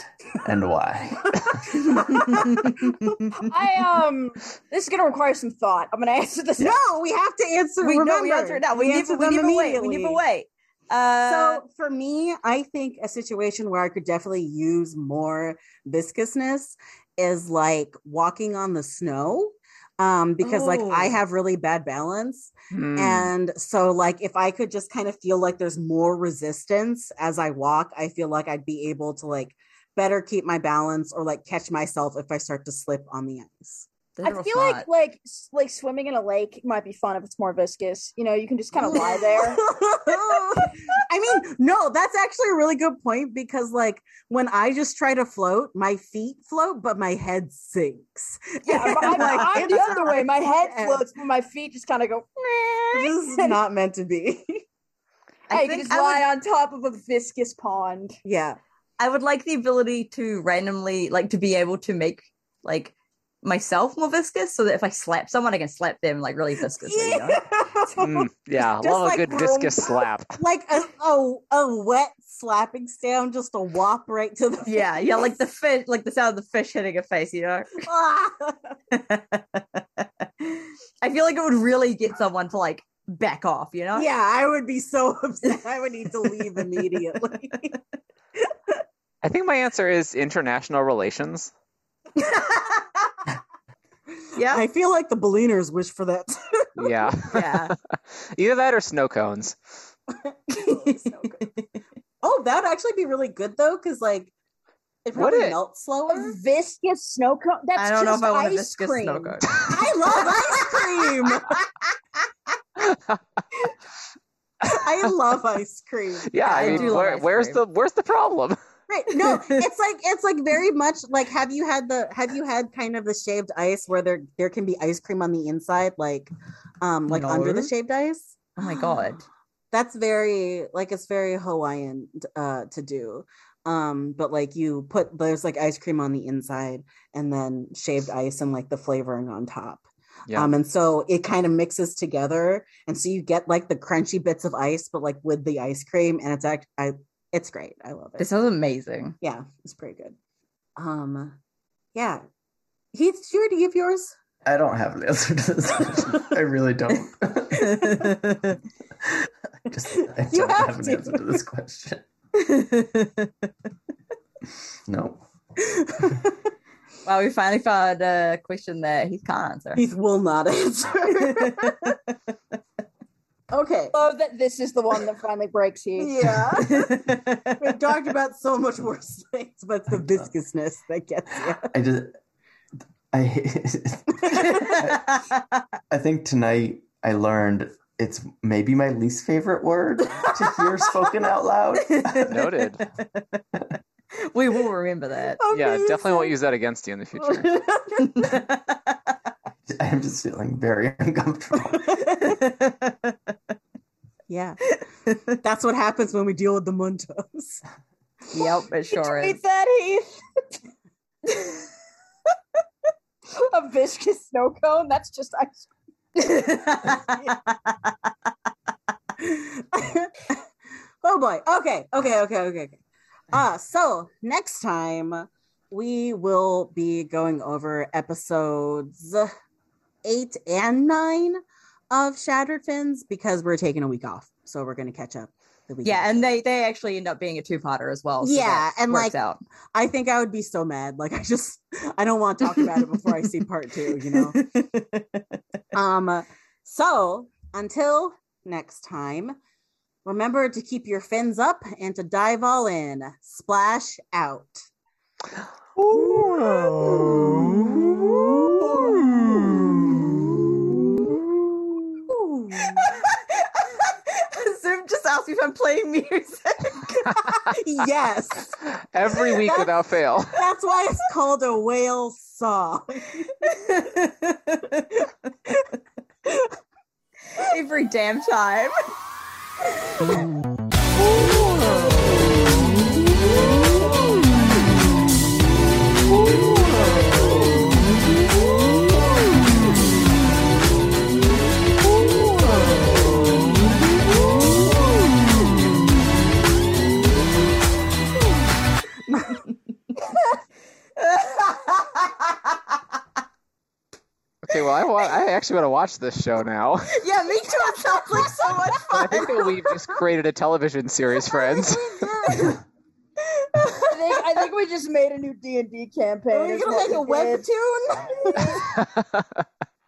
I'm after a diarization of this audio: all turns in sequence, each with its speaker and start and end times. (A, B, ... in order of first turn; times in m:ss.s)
0:00.4-0:01.7 A
0:01.4-0:03.2 B
0:02.3-0:02.7 C
0:03.4-0:06.8 D
0:06.6-0:10.2 B
0:07.8-0:11.6 C
0:11.2-0:33.9 B
0:20.4-0:21.2 C
0:22.7-0:23.3 E
0:34.2-0:34.9 C
0:34.2-0:39.6 D
0:38.8-0:39.4 C
0:38.9-0:51.1 B
0:48.7-0:50.2 C
0:48.7-0:53.6 D
0:52.9-0:54.6 B
0:55.5-0:56.2 C
0:55.5-0:58.2 D
0:58.2-0:58.6 B
0:59.0-1:07.4 C
1:06.7-1:15.4 B
1:08.0-1:10.4 E
1:14.7-1:17.8 C
1:17.8-1:18.8 B
1:18.9-1:19.6 C
1:20.4-1:24.1 C
1:23.9-1:27.8 B
1:26.2-1:27.0 C
1:29.2-1:31.5 E
1:32.2-1:33.0 B
1:34.4-1:34.6 C
1:34.4-1:37.1 B
1:36.8-1:39.6 E
1:37.3-1:37.8 C
1:40.1-1:41.5 B
1:40.7-1:41.6 C
1:42.2-1:44.3 B
1:45.0-1:46.4 B
1:45.2-1:45.6 E
1:46.1-1:49.4 D
1:47.8-1:49.6 C
1:49.5-1:51.7 B
1:50.2-1:50.7 C
1:52.8-1:53.2 E
1:54.6-1:57.2 B
1:56.3-1:58.6 E
1:56.5-1:57.6 C
1:58.9-2:09.0 B
1:59.2-1:59.6 C
2:07.1-2:07.7 C
2:08.6-2:09.2 C
2:09.7-2:28.3 B
2:28.2-2:29.2 C
2:29.2-2:30.2 B
2:30.8-2:31.4 B
2:32.0-2:32.2 B
2:32.9-2:34.2 B
2:34.4-2:38.2 A
2:37.8-2:38.6 C
2:39.0-2:42.0 A
2:39.9-2:41.4 B
2:42.4-2:43.3 C
2:44.9-2:45.2 A
2:45.6-2:46.5 B
2:47.0-2:49.8 C
2:49.8-2:51.9 B
2:51.4-2:52.0 C
2:53.5-2:54.0 B
2:53.9-2:56.1 D
2:56.0-3:01.7 B
2:56.4-2:57.6 C
3:01.6-3:02.2 A
3:03.1-3:05.2 A
3:04.2-3:04.8 B
3:04.5-3:05.3 C
3:05.9-3:12.7 A
3:11.9-3:12.2 C
3:12.3-3:12.8 E
3:13.0-3:13.4 C
3:14.2-3:15.4 C
3:15.4-3:16.3 B
3:15.5-3:17.6 E
3:17.2-3:18.3 B
3:18.0-3:18.8 C
3:19.7-3:22.2 A
3:21.8-3:22.3 B
3:22.2-3:23.2 C
3:24.3-3:24.6 B
3:25.3-3:27.6 B
3:28.3-3:29.4 C
3:29.0-3:30.2 D
3:33.4-3:35.7 D
3:36.2-3:37.4 C
3:39.2-3:40.4 B
3:41.0-3:42.8 B
3:43.3-3:49.3 B
3:50.0-3:51.4 B
3:51.9-3:56.2 B
3:55.8-3:59.4 C
3:58.2-3:59.2 B
3:59.7-4:04.5 B
4:02.6-4:03.0 C
4:04.1-4:05.2 C
4:05.7-4:09.4 B
4:10.0-4:14.7 B
4:15.9-4:16.7 C
4:16.0-4:17.5 B
4:16.2-4:16.7 E
4:18.2-4:19.4 B
4:22.1-4:23.0 B
4:22.8-4:27.0 C
4:27.0-4:33.3 B
4:28.7-4:30.4 E
4:33.4-4:35.0 C
4:37.4-4:38.7 C
4:59.1-4:59.4 B
4:59.1-4:59.4 C
5:01.0-5:01.8 C
5:04.4-5:07.0 E
5:06.9-5:09.4 C
5:07.6-5:09.9 B
5:08.9-5:12.5 E
5:11.2-5:12.6 B
5:13.6-5:14.0 B
5:13.9-5:17.4 D
5:16.3-5:18.8 B
5:19.0-5:19.2 E